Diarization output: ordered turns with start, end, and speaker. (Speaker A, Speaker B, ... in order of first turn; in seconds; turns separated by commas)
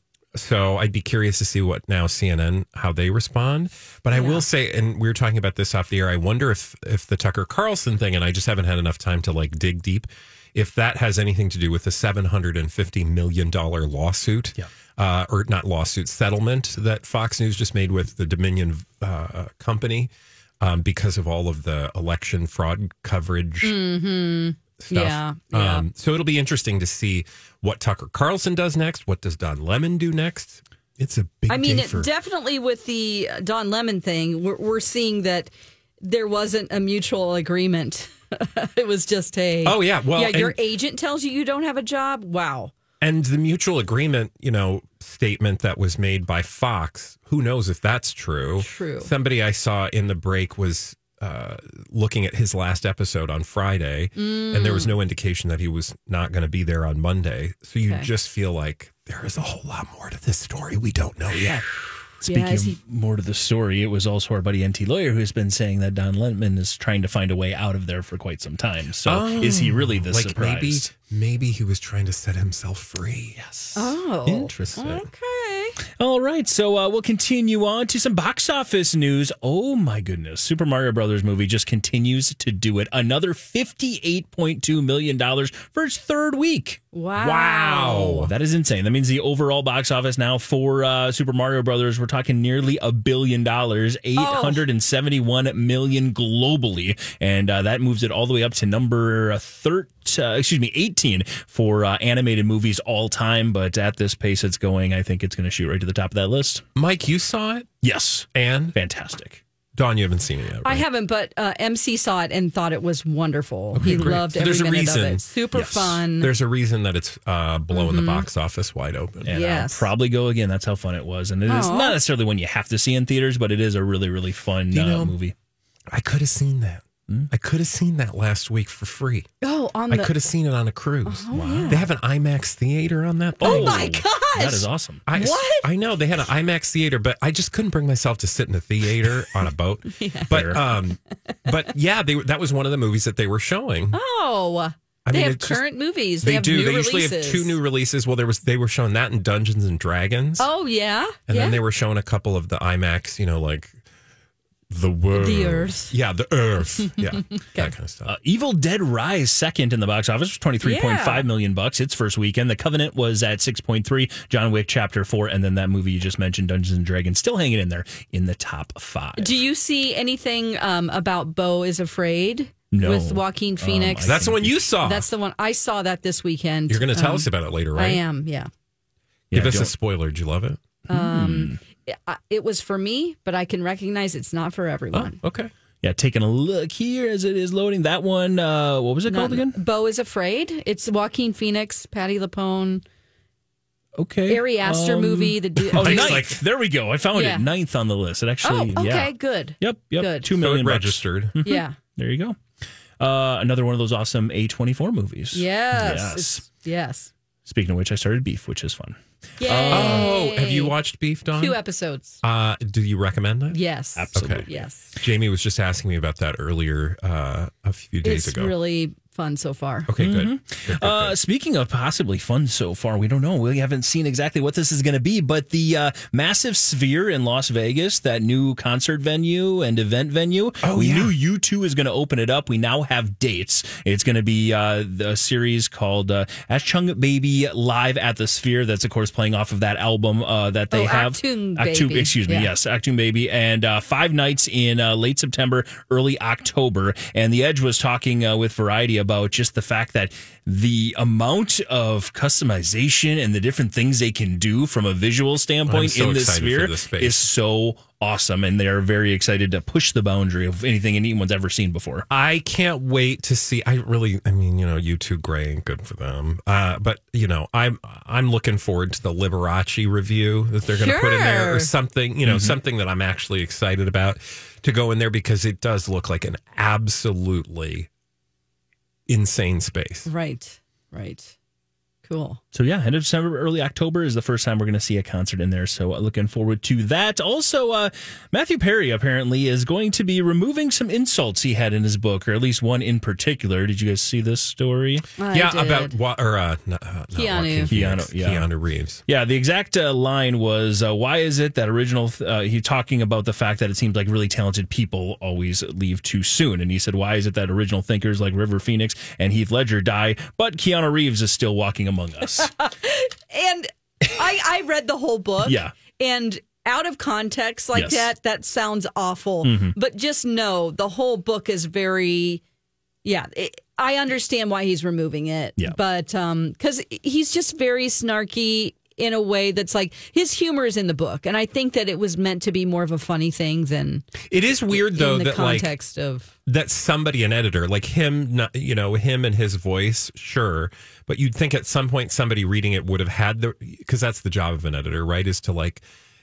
Speaker A: 0.3-23.8, Speaker B: 4.1-4.4, Speaker B: 23.6-25.9, Speaker A: 24.8-32.1, Speaker B: 31.5-35.5, Speaker B: 36.0-42.7, Speaker A: 39.6-40.5, Speaker A: 43.0-61.6, Speaker B: 48.6-49.1, Speaker B: 54.1-54.9, Speaker B: 57.8-58.1, Speaker C: 62.2-70.9, Speaker B: 62.2-62.8, Speaker A: 69.1-75.0, Speaker B: 73.7-75.8, Speaker C: 76.0-86.8, Speaker B: 86.9-88.3, Speaker A: 87.2-88.3, Speaker C: 88.2-106.6, Speaker B: 94.2-94.6, Speaker A: 106.8-107.7, Speaker C: 107.8-109.4, Speaker A: 108.3-108.8, Speaker A: 109.8-110.8, Speaker B: 110.6-116.3, Speaker A: 113.7-119.3, Speaker C: 113.8-114.2, Speaker B: 117.7-118.3, Speaker C: 119.2-125.3, Speaker B: 119.3-119.9, Speaker B: 121.5-122.0, Speaker A: 124.7-125.1, Speaker A: 125.9-129.3, Speaker B: 129.4-130.1, Speaker A: 129.9-133.9, Speaker B: 131.1-131.9, Speaker C: 133.4-135.0, Speaker B: 133.4-135.7, Speaker A: 135.1-143.9, Speaker B: 139.9-140.7, Speaker C: 140.3-140.6, Speaker B: 143.9-147.6, Speaker A: 145.0-145.6, Speaker A: 146.2-150.5, Speaker B: 150.4-151.6, Speaker A: 151.3-153.7, Speaker A: 154.7-158.1, Speaker B: 155.1-155.9, Speaker B: 157.0-157.7, Speaker C: 158.1-169.4, Speaker B: 160.6-161.2, Speaker B: 169.2-174.2, Speaker C: 172.7-174.6, Speaker A: 174.1-175.1, Speaker B: 174.8-178.5, Speaker A: 176.7-178.0, Speaker C: 179.3-179.7, Speaker A: 179.3-180.6, Speaker C: 180.9-181.6, Speaker B: 180.9-185.2, Speaker A: 184.9-185.5, Speaker C: 185.8-189.6, Speaker B: 189.1-192.8, Speaker C: 194.0-202.4, Speaker B: 194.3-196.2, Speaker A: 195.7-196.4, Speaker B: 197.1-197.4, Speaker B: 198.4-200.3, Speaker A: 200.4-201.3, Speaker B: 201.4-201.8, Speaker C: 203.0-206.4, Speaker B: 205.3-207.1, Speaker C: 207.4-210.1, Speaker B: 209.4-210.7, Speaker A: 209.7-211.6, Speaker B: 211.3-212.2, Speaker A: 212.2-213.6, Speaker B: 213.5-214.8, Speaker C: 213.9-214.6, Speaker A: 214.1-218.5, Speaker B: 218.0-219.9, Speaker A: 219.9-221.2, Speaker C: 220.0-262.1, Speaker A: 230.6-231.1, Speaker B: 240.7-242.5, Speaker A: 255.7-257.2, Speaker A: 262.1-277.9, Speaker B: 270.7-271.7, Speaker C: 272.2-272.6, Speaker A: 279.1-280.1, Speaker B: 280.1-281.3, Speaker B: 282.1-282.4, Speaker C: 282.5-295.1, Speaker B: 295.2-295.9, Speaker A: 295.3-299.0, Speaker B: 297.1-297.7, Speaker C: 297.7-298.5, Speaker C: 299.1-312.5, Speaker B: 312.4-322.4, Speaker C: 315.4-315.7, Speaker C: 317.7-318.1, Speaker C: 319.4-319.7, Speaker B: 323.0-334.1, Speaker A: 334.3-335.7, Speaker B: 334.7-336.3, Speaker A: 336.4-345.8